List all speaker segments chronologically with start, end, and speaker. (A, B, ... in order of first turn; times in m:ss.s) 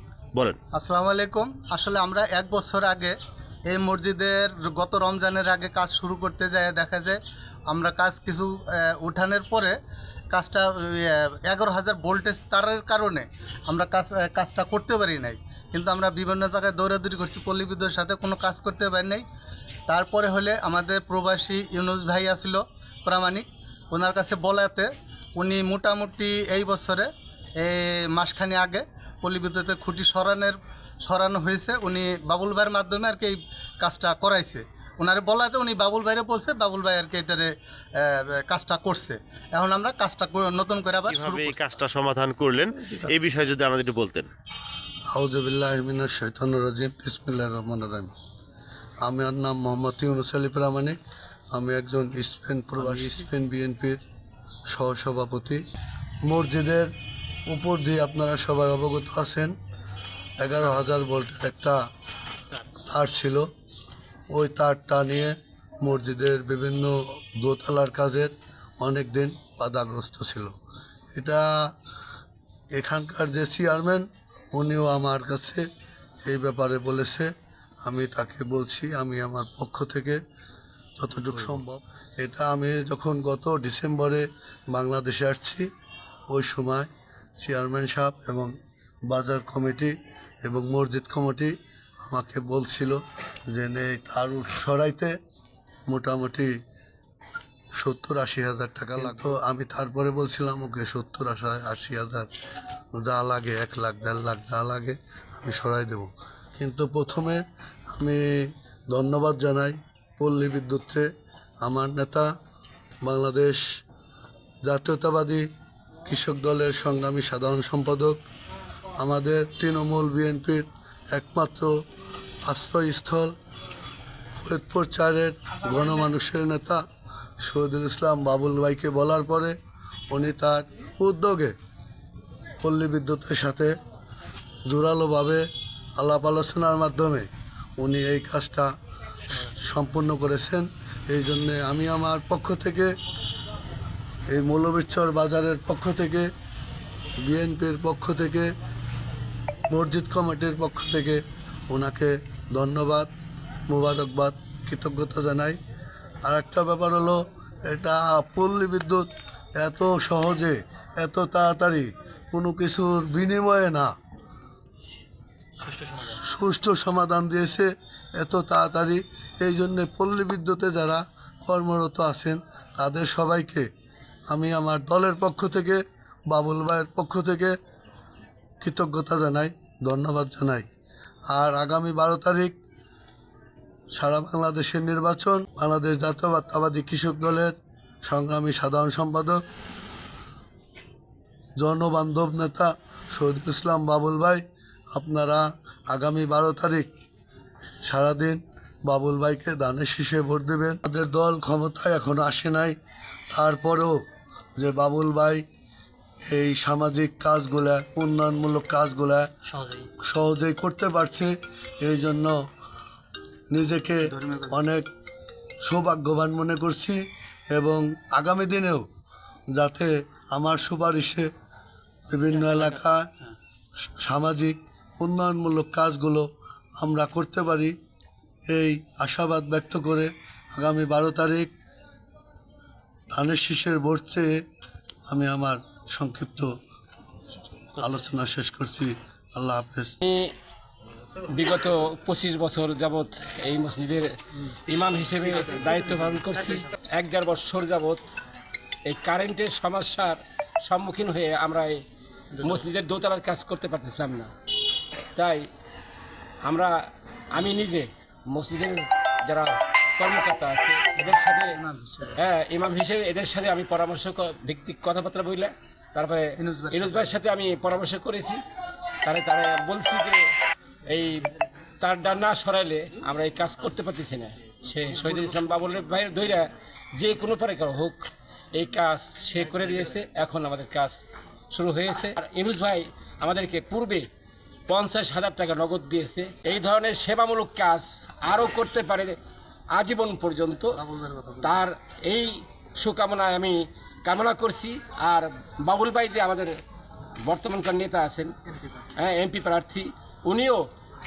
0:00.7-0:03.1 A
0:03.7-0:09.8 A
0:10.3-0:19.2 A
0:19.9-0:41.6 A
0:41.1-0:44.3 B
0:45.1-0:48.1 C
0:49.0-0:51.0 C
0:51.5-0:54.0 C
0:54.7-0:55.6 C
0:56.2-0:56.9 C
0:57.5-0:59.5 C
1:00.4-1:01.8 C
1:02.9-1:03.5 C
1:04.3-1:10.5 C
1:11.1-1:11.7 C
1:12.7-1:15.6 C
1:16.2-1:17.3 C
1:17.8-1:20.2 C
1:21.0-1:25.7 C
1:26.3-1:28.5 C
1:29.1-1:35.1 C
1:35.9-1:36.5 C
1:37.8-1:42.3 C
1:42.9-1:51.1 C
1:51.6-1:52.3 C
1:53.0-1:53.6 C
1:54.6-1:55.5 C
1:56.0-1:58.2 C
1:58.9-2:01.8 C
2:02.5-2:03.3 C
2:04.3-2:06.8 C
2:07.4-2:09.6 C
2:10.1-2:11.5 C
2:12.6-2:13.8 C
2:14.7-2:15.5 C
2:16.0-2:18.7 C
2:19.3-2:22.9 C
2:24.3-2:26.3 C
2:27.2-2:28.5 C
2:29.7-2:33.1 C
2:33.7-2:35.6 C
2:36.2-2:43.9 C
2:45.9-2:53.7 C
2:54.3-2:57.6 C
2:58.6-3:00.7 C
3:01.3-3:02.5 C
3:03.9-3:09.4 C
3:11.6-3:16.9 C
3:17.8-3:22.8 C
3:23.3-3:24.0 C
3:24.6-3:25.4 C
3:26.3-3:29.3 C
3:30.0-3:32.4 C
3:33.5-3:34.9 C
3:34.1-3:34.6 A
3:35.6-3:38.8 C
3:39.5-3:41.3 C
3:42.1-3:43.1 C
3:44.0-3:46.3 C
3:46.8-3:47.7 C
3:48.5-3:51.5 C
3:53.1-3:54.4 C
3:55.1-3:56.5 C
3:57.8-3:59.9 C
4:00.0-4:00.3 D
4:01.2-4:04.1 D
4:04.6-4:08.0 D
4:08.9-4:11.8 D
4:12.4-4:14.3 D
4:15.2-4:15.4 D
4:16.4-4:16.7 D
4:17.3-4:21.6 D
4:21.1-4:22.2 A
4:22.2-4:28.4 D
4:26.4-4:27.1 A
4:29.0-4:30.3 D
4:30.9-4:31.3 D
4:31.8-4:41.0 D
4:41.5-4:44.0 D
4:44.7-4:49.2 D
4:49.7-4:50.8 D
4:50.8-4:51.5 A
4:51.4-4:56.6 D
4:57.2-4:58.3 D
4:58.9-5:00.7 D